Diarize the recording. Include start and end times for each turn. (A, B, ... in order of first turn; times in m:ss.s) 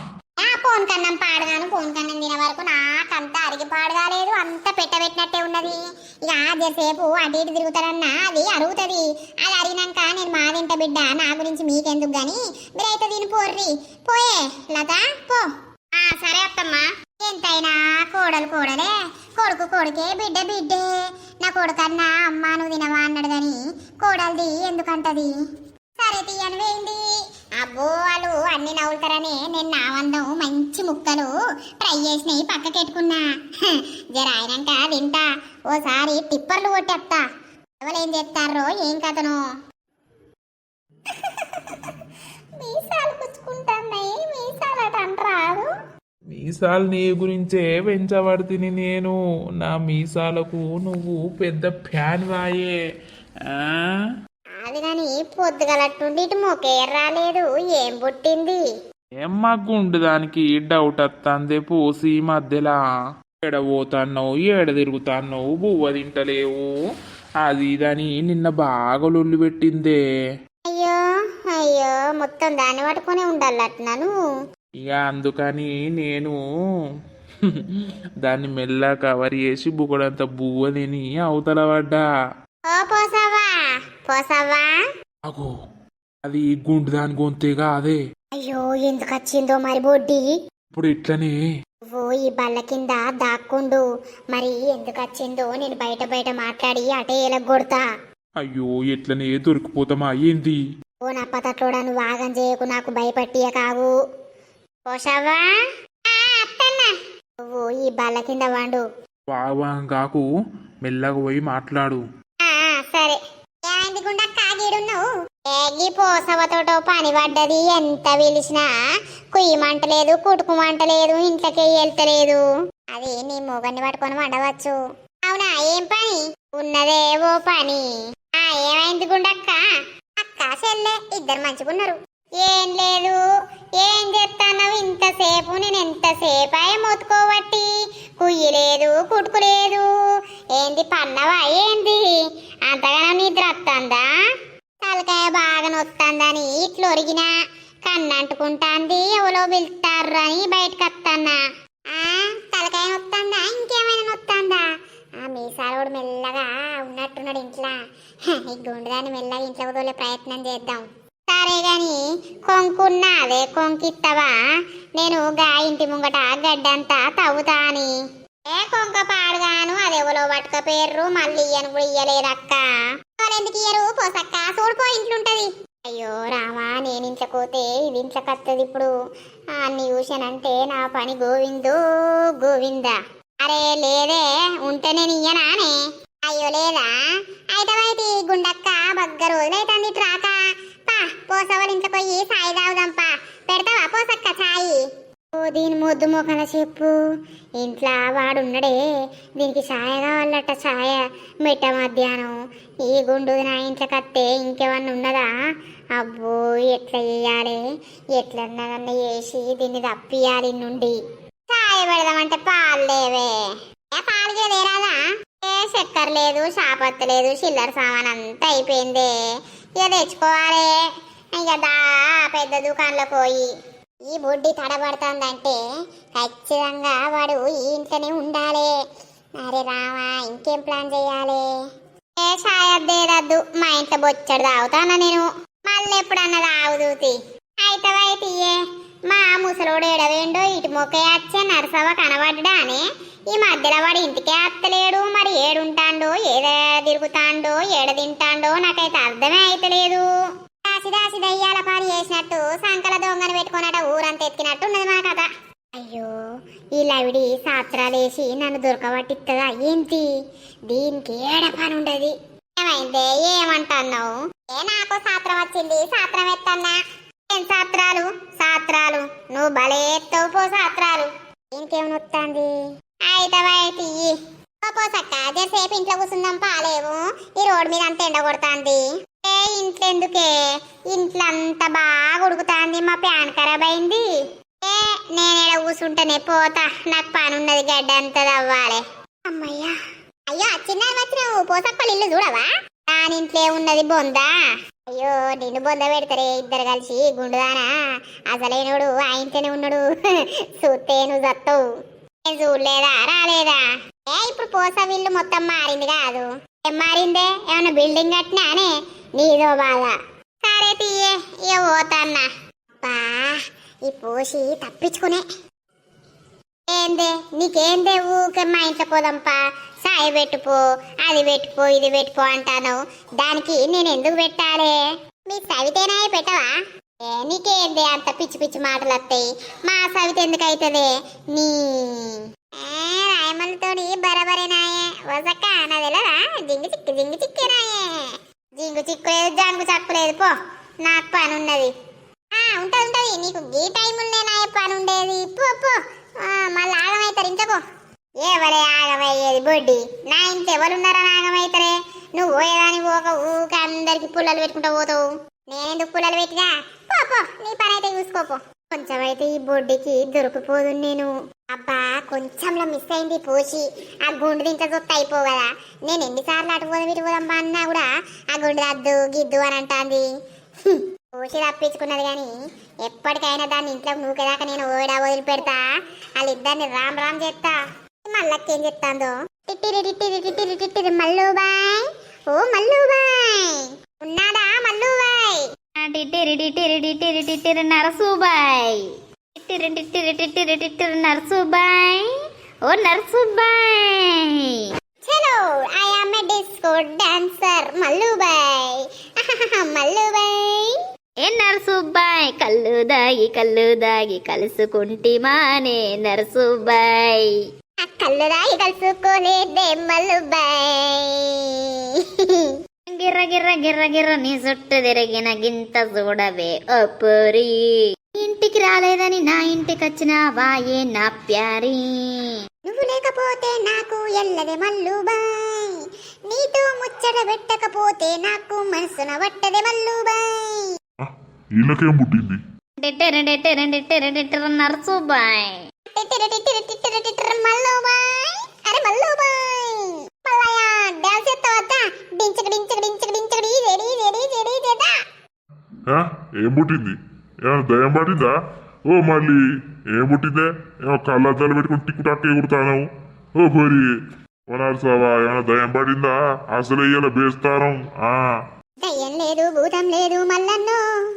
0:00.4-0:20.9 A
0:21.4-0:25.3 A
0:26.0-0:27.0 A
0:27.6-0:37.2 A
0:37.8-0:39.4 A
0:41.2-0:41.9 A
0:42.6-0:45.7 A
0:46.3-0:52.8 B
0:53.5-0:53.8 B
0:54.6-0:58.6 A
0:59.2-1:02.8 B
1:03.4-1:06.7 B
1:07.4-1:10.0 B
1:10.7-1:14.1 A
1:14.8-1:16.4 B
1:17.4-1:22.0 B
1:22.7-1:23.5 A
1:24.1-1:24.7 A
1:26.2-1:28.0 B
1:28.4-1:30.3 A
1:30.7-1:31.4 B
1:31.9-1:37.8 A
1:38.4-1:40.6 B
1:41.0-1:43.9 A
1:44.9-1:45.4 A
1:46.1-1:48.8 A
1:49.3-1:50.2 B
1:50.8-1:52.0 B
1:52.4-1:58.7 A
1:59.3-2:02.4 A
2:02.9-2:09.6 A
2:10.2-2:13.2 A
2:13.8-2:19.9 A
2:20.6-2:24.0 A
2:24.8-2:27.3 A
2:27.9-2:31.4 A
2:31.9-2:34.6 A
2:35.2-2:37.8 A
2:38.3-2:44.4 A
2:45.0-2:47.9 A
2:48.5-2:52.6 A
2:53.2-2:58.9 A
2:59.6-3:01.8 A
3:02.4-3:06.9 A
3:07.5-3:14.8 A
3:15.3-3:17.0 A
3:17.6-3:18.8 A
3:19.4-3:25.3 A
3:26.0-3:27.6 A
3:28.1-3:31.0 A
3:31.5-3:33.3 A
3:33.9-3:39.1 A
3:39.8-3:40.8 A
3:41.4-3:43.5 A
3:44.1-3:45.6 A
3:46.2-3:48.7 A
3:49.4-3:51.4 A
3:52.2-3:58.6 A
3:59.1-4:10.0 A
4:10.6-4:16.1 A
4:16.8-4:20.1 A
4:20.7-4:26.8 A
4:27.3-4:32.5 A
4:33.0-4:40.4 A
4:40.9-4:44.0 A
4:44.6-4:49.7 A
4:50.3-4:54.3 A
4:54.9-4:57.7 A
4:58.3-5:01.6 A
5:02.2-5:09.9 A
5:10.4-5:12.3 A
5:12.8-5:15.2 A
5:16.7-5:26.5 A
5:27.0-5:41.7 A
5:42.3-5:47.6 A
5:48.2-6:10.0 A
6:10.6-6:12.3 A
6:12.8-6:15.6 A
6:16.2-6:25.4 A
6:25.8-6:32.0 C
6:32.7-6:34.6 C
6:35.1-6:40.8 A
6:41.2-6:47.3 C
6:47.8-6:52.5 A
6:52.9-7:02.4 C
7:02.6-7:10.7 A
7:11.0-7:12.4 D
7:12.8-7:15.6 C
7:15.9-7:25.0 A
7:25.9-7:28.3 D
7:28.9-7:29.4 D
7:29.9-7:32.9 D
7:33.4-7:33.8 D
7:34.5-7:38.2 D
7:38.8-7:40.8 A